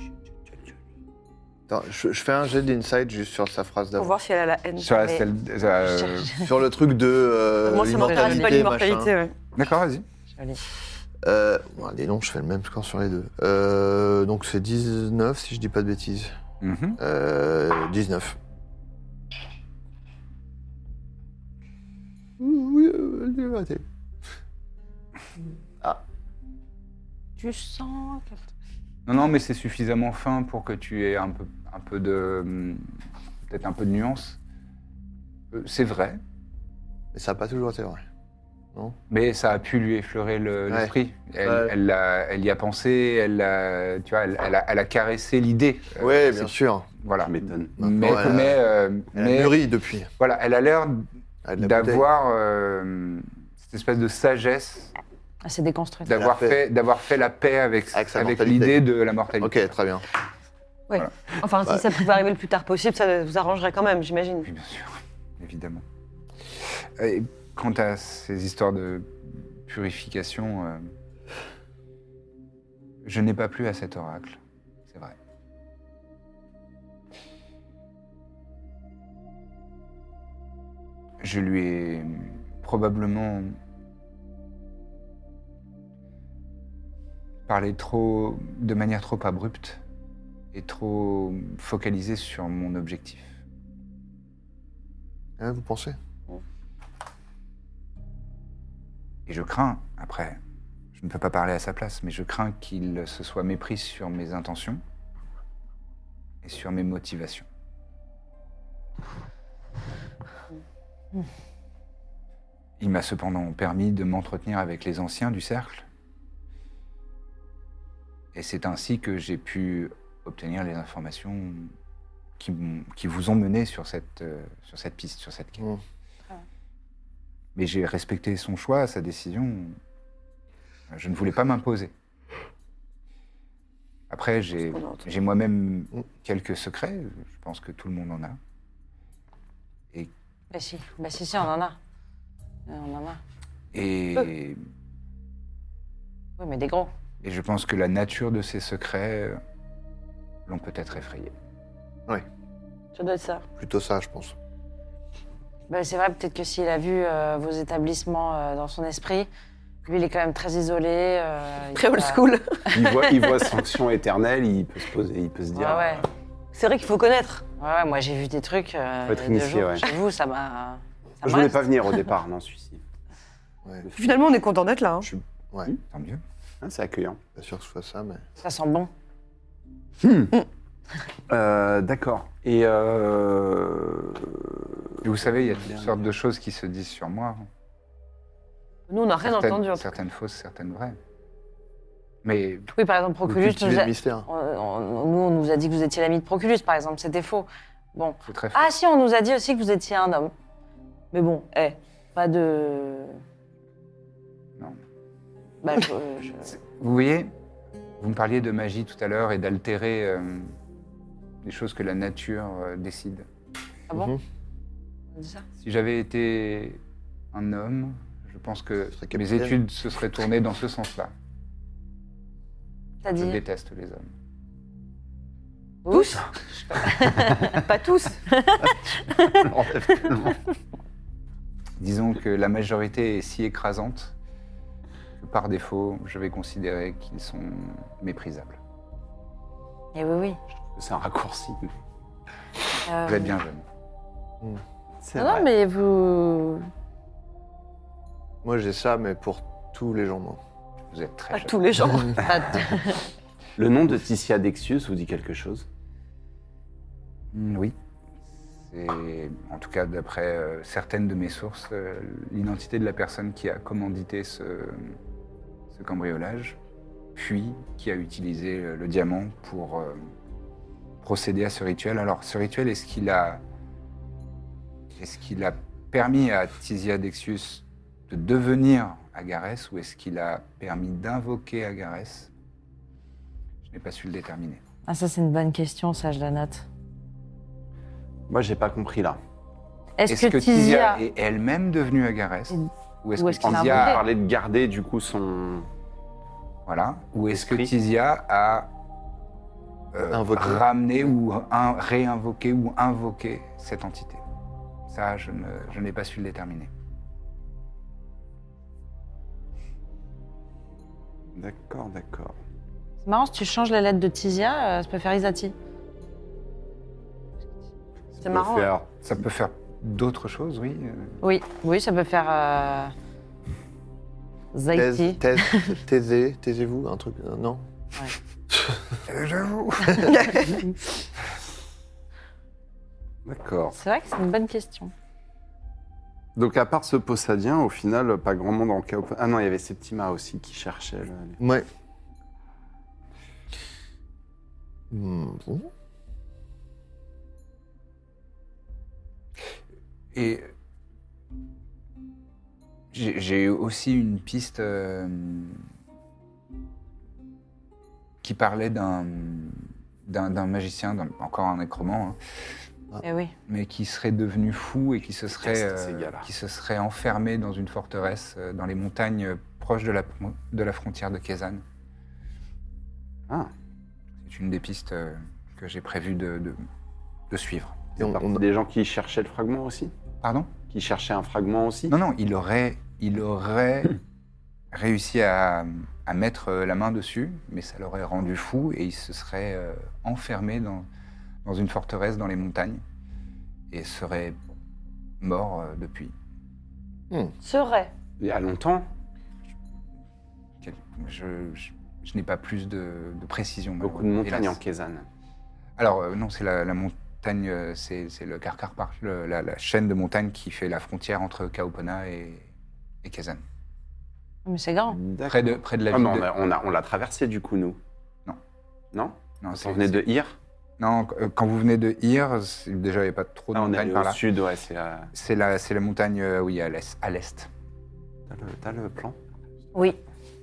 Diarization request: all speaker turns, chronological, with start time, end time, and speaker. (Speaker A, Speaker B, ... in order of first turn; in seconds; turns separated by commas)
Speaker A: 1.7-4.2, Speaker B: 4.0-5.2, Speaker C: 4.8-6.3, Speaker D: 5.8-6.5, Speaker A: 6.3-9.1, Speaker B: 7.7-9.3, Speaker D: 7.9-8.7, Speaker C: 9.6-10.1, Speaker D: 10.3-10.6, Speaker A: 11.2-16.3, Speaker C: 16.6-17.0, Speaker A: 17.0-18.4, Speaker A: 22.4-23.8, Speaker D: 27.4-28.5, Speaker C: 29.1-32.8, Speaker C: 33.5-34.4, Speaker C: 35.5-36.2, Speaker A: 37.1-38.0, Speaker C: 39.1-49.6, Speaker A: 40.7-41.7, Speaker A: 46.0-46.9, Speaker E: 47.2-48.3, Speaker A: 47.8-48.6, Speaker A: 49.1-50.1, Speaker C: 50.2-54.9, Speaker A: 51.4-52.1, Speaker D: 55.4-56.1, Speaker C: 56.1-59.7, Speaker A: 56.1-56.6, Speaker A: 57.9-58.8, Speaker A: 59.4-60.0, Speaker B: 60.9-64.5, Speaker C: 64.4-65.8, Speaker C: 67.0-70.9, Speaker C: 73.0-75.2, Speaker C: 81.2-83.6, Speaker C: 87.5-89.8, Speaker C: 90.5-93.4, Speaker A: 95.4-96.0, Speaker C: 99.3-100.4, Speaker C: 100.9-104.8, Speaker C: 106.4-107.5, Speaker C: 112.8-115.9, Speaker C: 118.3-121.7, Speaker C: 122.4-125.7, Speaker C: 127.5-129.8, Speaker C: 130.9-131.9, Speaker C: 134.1-138.4, Speaker B: 134.7-135.0, Speaker D: 140.5-141.8, Speaker D: 142.7-143.2, Speaker C: 143.7-144.6, Speaker D: 146.4-146.9, Speaker C: 147.2-149.4, Speaker C: 150.5-151.3, Speaker B: 152.9-153.4, Speaker A: 153.6-154.4, Speaker D: 155.7-159.3, Speaker D: 159.8-162.2, Speaker B: 161.8-163.4, Speaker E: 162.7-166.1, Speaker D: 165.5-166.1, Speaker B: 166.5-167.5, Speaker D: 167.6-172.0, Speaker E: 169.1-169.9, Speaker E: 171.2-172.8, Speaker E: 173.8-174.2, Speaker B: 174.0-175.1, Speaker A: 175.0-175.7, Speaker C: 175.9-176.2, Speaker E: 176.6-177.2, Speaker A: 177.3-178.3, Speaker D: 178.4-178.9, Speaker E: 180.0-180.3, Speaker E: 181.3-186.0, Speaker C: 185.0-187.5, Speaker B: 188.9-189.9, Speaker C: 189.2-191.0, Speaker C: 192.2-192.7, Speaker D: 192.7-200.3, Speaker A: 193.3-194.3, Speaker C: 198.3-198.7, Speaker D: 201.1-203.2, Speaker D: 205.6-206.6, Speaker C: 206.4-207.3, Speaker C: 208.0-210.5, Speaker C: 211.4-213.3, Speaker D: 213.9-214.2, Speaker A: 213.9-214.2, Speaker D: 215.2-215.4, Speaker C: 215.6-216.8, Speaker C: 217.3-221.1, Speaker A: 219.0-219.6, Speaker D: 223.0-223.4, Speaker C: 223.2-224.1, Speaker D: 225.8-227.6, Speaker B: 225.9-226.2, Speaker B: 227.2-228.2, Speaker D: 228.3-229.5, Speaker E: 229.3-230.4, Speaker C: 231.8-234.1, Speaker C: 235.2-238.6, Speaker D: 239.9-240.4, Speaker E: 240.7-241.7, Speaker D: 242.9-243.4, Speaker C: 243.1-243.6, Speaker E: 245.0-245.5, Speaker D: 245.2-246.7, Speaker A: 248.4-250.4, Speaker C: 250.9-251.6, Speaker B: 251.3-253.1, Speaker D: 252.2-252.7, Speaker E: 253.6-255.7, Speaker C: 257.3-257.8, Speaker C: 258.7-265.0, Speaker C: 265.7-266.6, Speaker C: 267.2-270.1, Speaker C: 271.0-273.4, Speaker C: 275.0-282.3, Speaker C: 283.6-284.6, Speaker D: 284.9-286.7, Speaker E: 288.3-289.2, Speaker D: 290.0-291.0, Speaker C: 290.1-294.0, Speaker D: 292.5-294.0, Speaker E: 293.4-295.7, Speaker C: 296.7-298.7, Speaker E: 297.3-297.7, Speaker C: 299.9-304.2, Speaker A: 300.1-300.6, Speaker C: 304.9-306.7, Speaker E: 311.4-312.4, Speaker D: 313.0-315.5, Speaker E: 318.2-318.9, Speaker B: 318.2-318.7, Speaker C: 319.0-321.2, Speaker D: 321.2-322.9, Speaker D: 324.5-325.7, Speaker A: 324.7-327.7, Speaker C: 329.1-330.4, Speaker B: 330.1-330.5, Speaker E: 333.2-333.8, Speaker D: 333.7-334.9, Speaker E: 336.4-341.4, Speaker A: 341.4-341.7, Speaker A: 344.9-345.7, Speaker C: 350.1-350.5, Speaker C: 352.9-355.6, Speaker C: 358.2-362.2, Speaker D: 363.0-363.3, Speaker C: 363.5-371.6, Speaker E: 365.4-366.3, Speaker C: 374.2-376.6, Speaker C: 377.3-377.9, Speaker A: 378.0-378.4, Speaker E: 378.0-379.9, Speaker C: 380.2-380.5, Speaker E: 380.7-381.9, Speaker C: 381.9-384.0, Speaker C: 384.7-390.9, Speaker C: 391.4-392.8, Speaker C: 393.7-394.4, Speaker C: 395.2-396.1, Speaker B: 397.4-397.9, Speaker E: 398.2-398.9, Speaker C: 400.6-404.6, Speaker E: 403.8-405.1, Speaker C: 405.8-412.5, Speaker C: 413.0-413.4, Speaker D: 414.4-415.0, Speaker E: 414.9-417.8, Speaker C: 415.3-416.3, Speaker E: 418.9-420.4, Speaker C: 419.4-420.0, Speaker C: 420.8-424.2, Speaker E: 423.5-425.1, Speaker C: 425.1-427.5, Speaker E: 428.3-429.2, Speaker D: 429.7-430.0